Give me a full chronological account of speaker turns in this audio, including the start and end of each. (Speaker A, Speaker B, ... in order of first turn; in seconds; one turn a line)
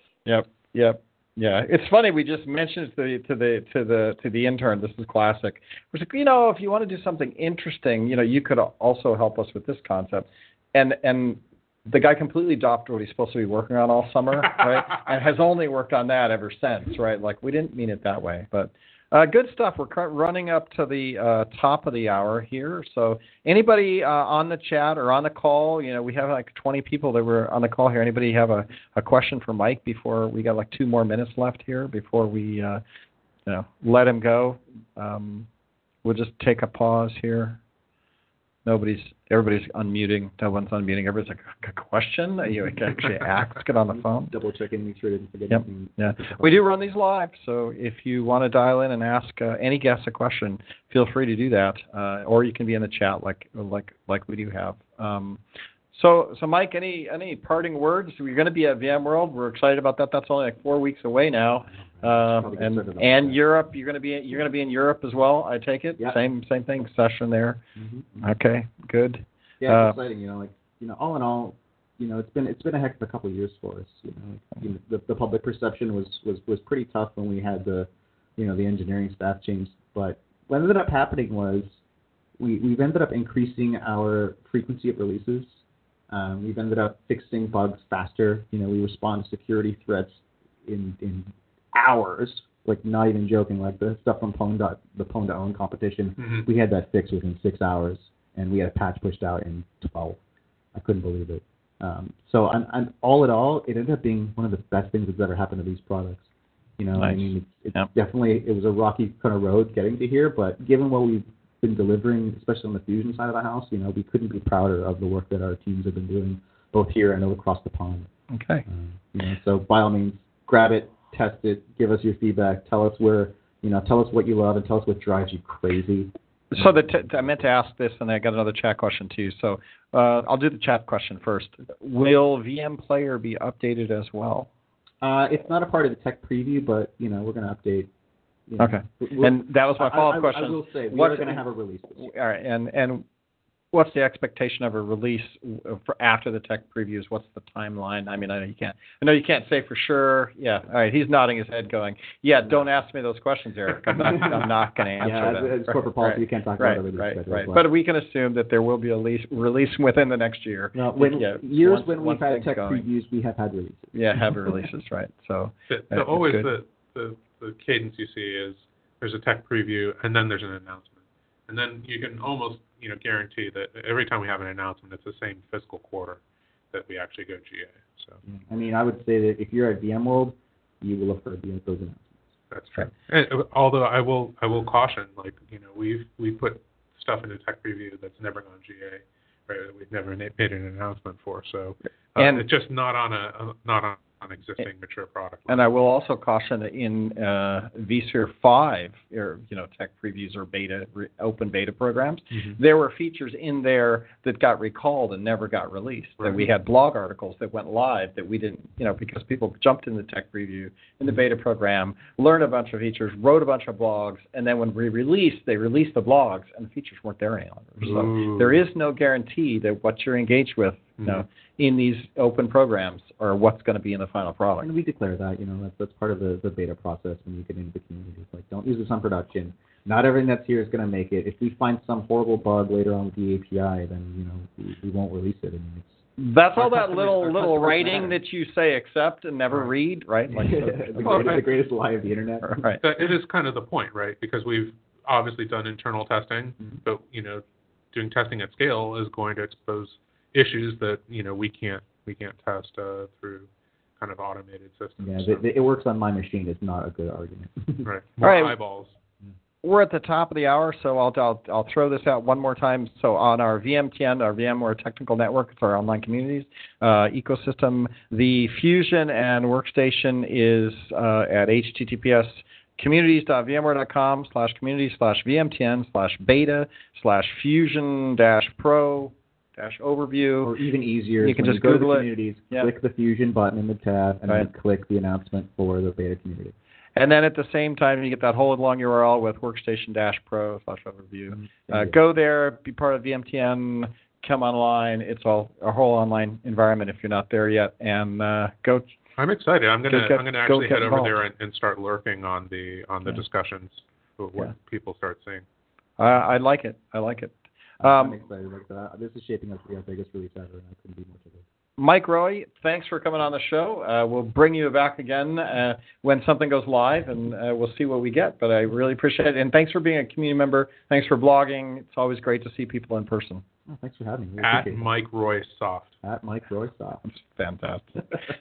Speaker A: 0.2-32.8
Speaker A: 33.5-35.5
Speaker A: 36.0-37.6
Speaker A: 38.6-44.3
Speaker B: 43.9-46.5
Speaker A: 45.5-55.4
Speaker A: 55.9-67.6
Speaker B: 62.0-63.4
Speaker B: 67.8-68.2
Speaker A: 68.2-70.0
Speaker B: 69.6-81.8
Speaker B: 82.4-85.6
Speaker B: 86.1-100.2
Speaker C: 96.2-96.4
Speaker B: 100.7-106.2
Speaker B: 106.8-118.1
Speaker A: 107.0-107.9
Speaker A: 118.3-118.6
Speaker B: 118.7-127.1
Speaker A: 126.5-134.5
Speaker B: 135.0-137.9
Speaker B: 138.5-142.1
Speaker A: 138.6-141.4
Speaker A: 142.0-143.0
Speaker A: 143.7-162.8
Speaker B: 155.0-157.7
Speaker B: 160.7-164.5
Speaker A: 163.9-166.5
Speaker C: 165.7-171.0
Speaker C: 171.5-176.2
Speaker C: 176.7-178.2
Speaker B: 178.5-182.2
Speaker C: 182.5-195.7
Speaker A: 192.2-192.4
Speaker A: 195.5-224.7
Speaker C: 206.2-206.4
Speaker C: 217.8-218.6
Speaker B: 224.6-236.0
Speaker A: 236.2-241.4
Speaker B: 236.6-238.2
Speaker B: 240.3-242.7
Speaker A: 242.4-242.8
Speaker C: 242.8-253.5
Speaker C: 254.0-255.4
Speaker B: 255.0-257.9
Speaker C: 257.8-258.9
Speaker A: 258.2-258.6
Speaker A: 259.6-280.5
Speaker B: 280.4-286.5
Speaker A: 281.2-282.7
Speaker A: 286.9-298.9
Speaker B: 291.7-291.9
Speaker C: 299.2-305.4
Speaker A: 299.9-301.1
Speaker A: 306.0-308.2
Speaker B: 307.8-311.4
Speaker A: 311.8-323.4
Speaker B: 323.7-324.9
Speaker C: 324.4-325.9
Speaker B: 326.0-327.1
Speaker A: 327.1-328.0